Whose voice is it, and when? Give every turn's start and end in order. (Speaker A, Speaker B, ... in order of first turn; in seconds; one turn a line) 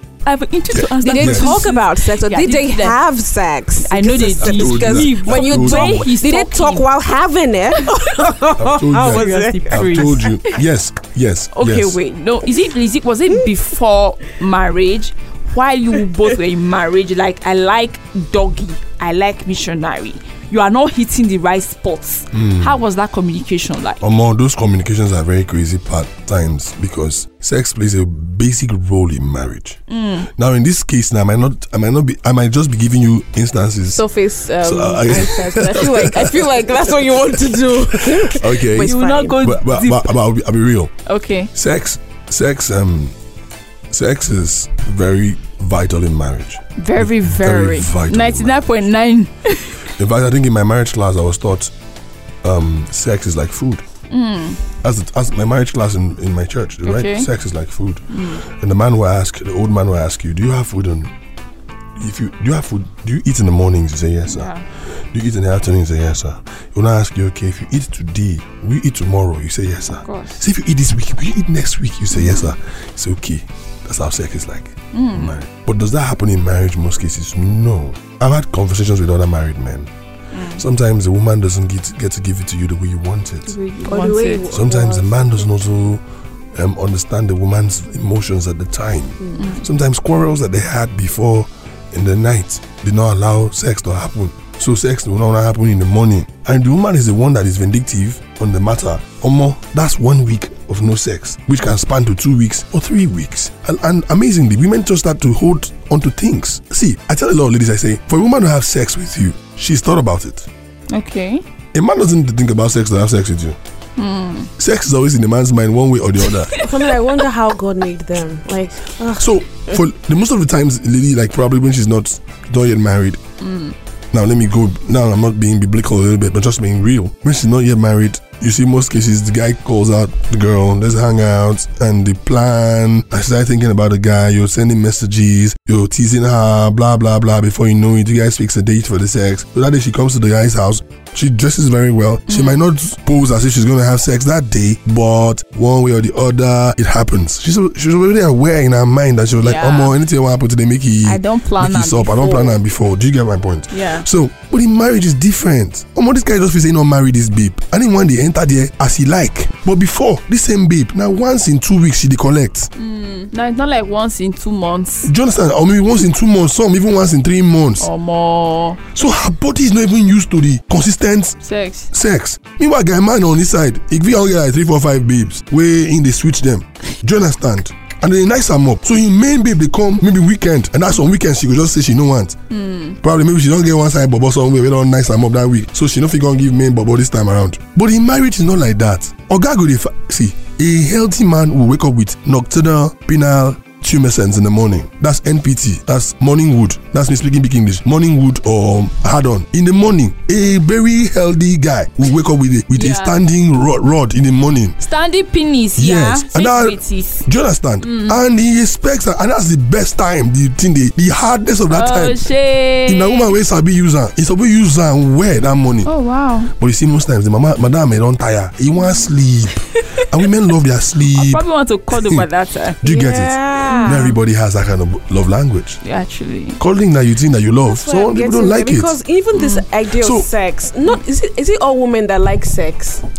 Speaker A: 0.2-3.0
Speaker B: 1.0-10.3
Speaker C: 1.1-1.5
Speaker A: 3.9-6.8
Speaker C: 4.4-6.1
Speaker C: 8.6-12.0
Speaker A: 8.9-10.6
Speaker A: 11.6-24.0
Speaker C: 22.3-22.8
Speaker C: 24.0-29.8
Speaker A: 29.9-30.3
Speaker C: 30.4-34.0
Speaker B: 33.9-39.4
Speaker C: 34.6-40.9
Speaker A: 38.8-40.1
Speaker A: 41.1-41.5
Speaker C: 41.5-43.1
Speaker C: 43.9-48.7
Speaker A: 46.8-49.8
Speaker C: 50.0-51.7
Speaker C: 52.4-53.8
Speaker A: 54.1-54.6
Speaker C: 54.8-61.1
Speaker A: 56.8-57.3
Speaker A: 58.1-58.4
Speaker C: 62.0-64.5
Speaker A: 64.3-64.6
Speaker C: 65.1-79.9
Speaker A: 70.0-70.4
Speaker A: 72.1-72.5
Speaker A: 74.9-75.3
Speaker A: 80.3-80.6
Speaker C: 80.5-83.5
Speaker A: 83.5-84.5
Speaker B: 83.8-85.5
Speaker C: 84.5-86.0
Speaker C: 86.5-110.5
Speaker B: 89.2-89.5
Speaker A: 89.3-89.7
Speaker A: 110.9-111.4
Speaker C: 111.7-113.6
Speaker A: 114.0-114.5
Speaker C: 114.6-116.5
Speaker A: 116.4-116.8
Speaker B: 116.5-119.7
Speaker C: 119.2-123.2
Speaker A: 123.4-123.8
Speaker C: 124.1-162.7
Speaker A: 142.3-142.6
Speaker A: 149.4-149.9
Speaker A: 151.1-152.6
Speaker A: 153.7-154.1
Speaker A: 162.8-165.1
Speaker C: 165.0-167.9
Speaker A: 167.8-168.8
Speaker C: 168.9-171.4
Speaker A: 171.4-171.9
Speaker C: 171.9-182.4
Speaker A: 182.5-183.0
Speaker C: 183.0-204.8
Speaker A: 202.7-203.2
Speaker A: 204.8-207.3
Speaker C: 205.8-212.2
Speaker A: 207.8-208.2
Speaker A: 211.7-213.4
Speaker C: 212.9-215.9
Speaker A: 215.8-216.5
Speaker C: 216.6-222.3
Speaker A: 221.1-222.9
Speaker C: 222.8-225.8
Speaker B: 222.8-224.1
Speaker A: 223.6-224.1
Speaker A: 225.8-226.6
Speaker C: 226.6-228.9
Speaker B: 227.6-233.0
Speaker A: 229.3-229.6
Speaker C: 230.0-230.3